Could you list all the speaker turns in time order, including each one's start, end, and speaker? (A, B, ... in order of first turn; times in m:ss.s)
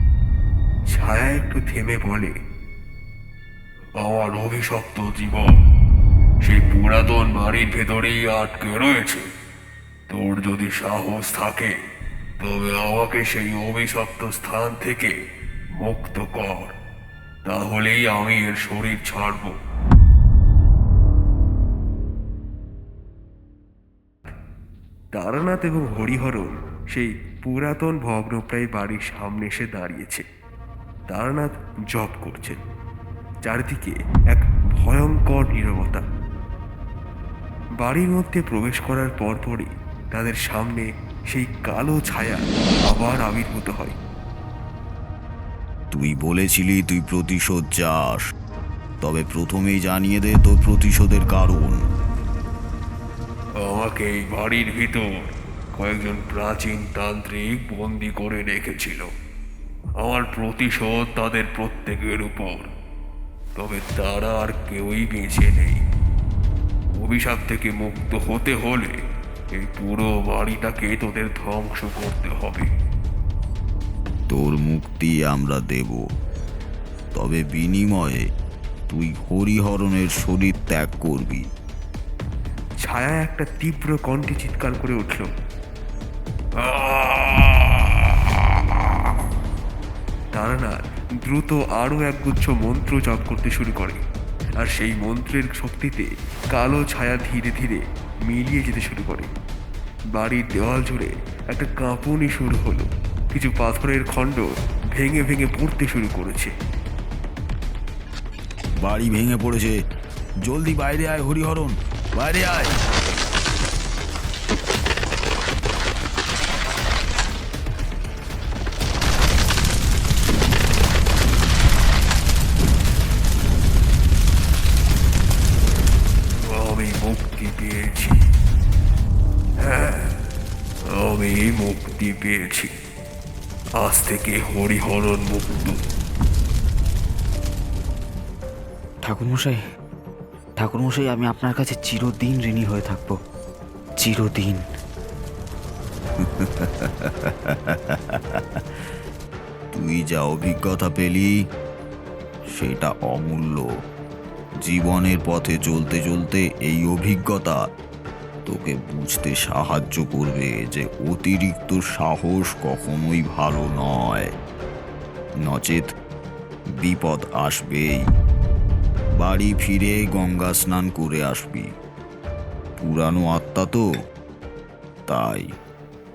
0:00.9-0:02.3 A
0:04.0-0:05.5 A
0:06.4-0:09.2 A
0:10.1-0:11.7 A
0:12.4-0:15.1 A
0:15.8-0:16.7 A
0:17.4-0:19.6 A
0:25.1-0:30.2 A
0:31.1-0:32.6 A
0:33.4-0:36.0 A
0:37.8-0:43.9 A
0:45.9-0:48.2 B
0:49.0-0:51.8 B
0:53.6-0:59.1 A
1:00.0-1:02.7 A
1:03.6-1:05.8 A
1:06.9-1:09.0 A
1:09.5-1:12.7 A
1:14.3-1:16.0 B
1:17.1-1:18.2 B
1:18.9-1:21.4 B
1:22.8-1:25.3 A
1:26.6-1:28.6 A
1:30.3-1:34.0 A
1:34.6-1:39.3 A
1:40.1-1:46.5 A
1:48.8-1:49.8 B
1:50.4-1:52.8 B
2:06.4-2:08.2 A
2:09.6-2:10.1 A
2:10.9-2:12.7 A
2:13.8-2:15.8 A
2:19.0-2:19.6 C
2:20.6-2:23.2 C
2:24.0-2:24.6 C
2:26.2-2:28.6 B
2:29.7-2:31.3 B
2:32.5-2:33.7 B
2:34.6-2:37.6 B
2:38.4-2:44.3 B
2:45.4-2:45.9 B
2:46.8-2:48.0 B
2:49.2-2:51.7 B
2:52.8-2:53.8 B
2:55.1-2:55.5 B